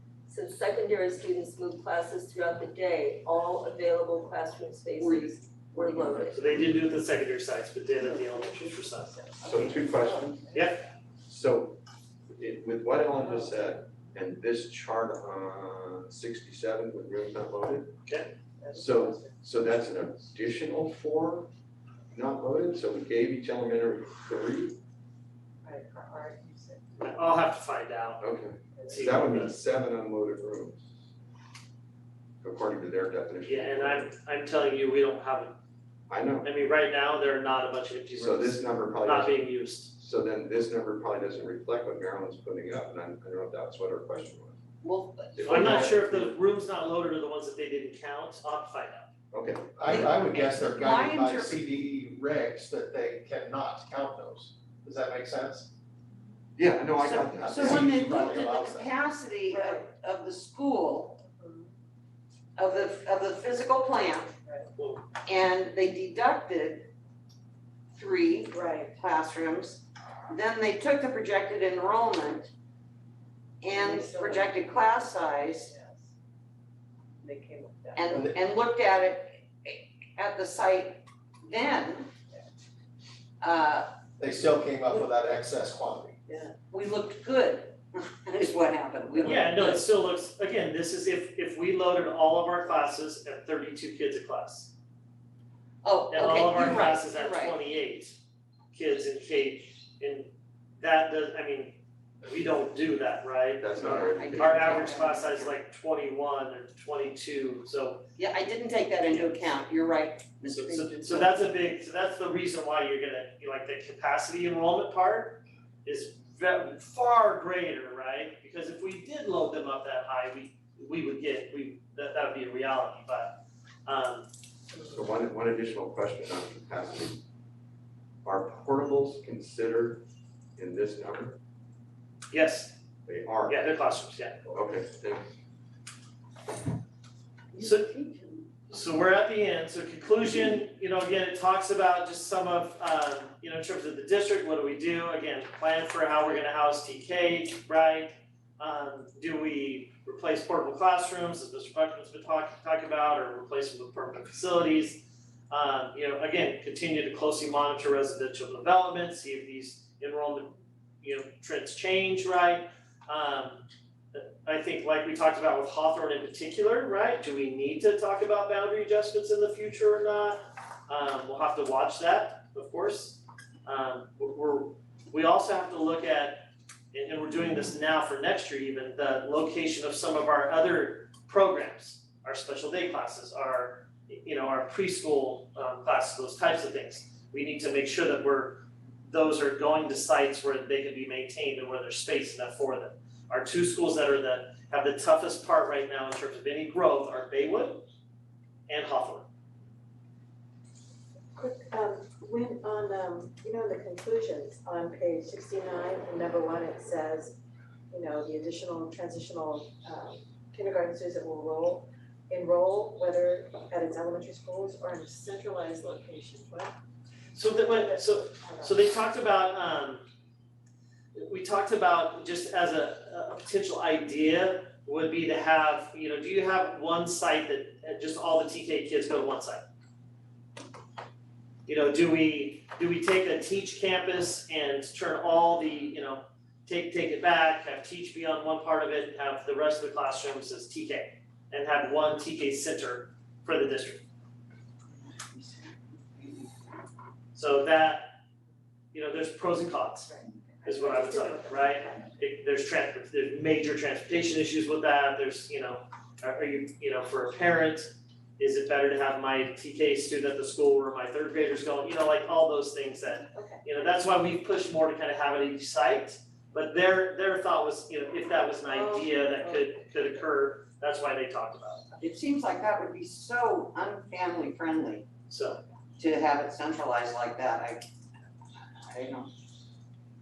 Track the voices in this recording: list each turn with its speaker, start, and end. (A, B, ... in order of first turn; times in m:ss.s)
0:00.3-0:06.6 A
0:05.0-0:06.2 B
0:06.3-0:06.7 C
0:06.3-0:09.2 D
0:09.4-0:10.5 C
0:09.5-0:10.3 B
0:10.0-0:10.7 E
0:11.2-0:11.8 C
0:12.3-0:17.9 C
0:18.6-0:19.4 E
0:18.7-0:21.5 C
0:22.1-0:24.8 C
0:25.6-0:27.1 E
0:27.0-0:28.2 D
0:28.2-0:30.9 C
0:28.7-0:29.3 E
0:28.9-0:29.6 D
0:32.4-0:34.1 C
0:33.4-0:35.5 D
0:36.1-0:36.5 C
0:36.4-0:39.9 D
0:38.1-0:44.6 C
0:44.8-0:45.9 B
0:45.3-0:46.4 C
0:45.5-0:49.1 D
0:49.3-0:50.2 C
0:49.7-0:55.7 F
0:49.9-0:51.6 B
0:56.6-0:58.1 C
0:57.0-1:01.2 B
0:57.3-0:58.9 F
0:59.5-0:59.9 E
1:01.2-1:01.7 E
1:02.6-1:04.4 B
1:04.4-1:04.7 E
1:04.8-1:05.0 D
1:05.2-1:06.9 B
1:07.9-1:12.5 B
1:08.5-1:09.0 E
1:13.6-1:15.7 B
1:13.7-1:14.8 E
1:15.4-1:16.1 E
1:17.2-1:18.0 E
1:18.0-1:22.1 B
1:18.1-1:18.4 F
1:23.4-1:23.9 B
1:24.2-1:26.2 F
1:26.3-1:26.5 E
1:26.6-1:29.8 B
1:29.2-1:34.7 D
1:35.8-1:37.6 B
1:36.1-1:38.2 D
1:38.7-1:48.0 D
1:43.6-1:44.7 C
1:44.0-1:45.6 B
1:48.2-1:51.4 B
1:49.1-1:49.5 D
1:50.4-2:04.3 D
2:04.8-2:07.2 C
2:08.2-2:10.0 C
2:10.6-2:11.4 C
2:12.3-2:12.8 D
2:13.0-2:13.6 C
2:13.4-2:14.5 D
2:14.5-2:15.3 C
2:17.5-2:18.4 B
2:17.6-2:17.9 D
2:18.7-3:17.8 D
3:18.7-3:19.3 D
3:21.3-3:27.4 E
3:27.9-3:36.7 E
3:37.3-3:40.0 D
3:37.6-3:38.8 E
3:41.1-3:49.6 D
3:51.6-4:04.0 D
4:05.3-4:06.2 B
4:07.3-4:08.1 D
4:08.9-4:10.1 D
4:10.1-4:12.0 E
4:10.6-4:31.9 D
4:23.3-4:23.7 E
4:28.7-4:30.3 E
4:32.0-4:35.1 B
4:35.3-4:35.6 D
4:36.0-4:37.8 B
4:38.6-4:39.3 B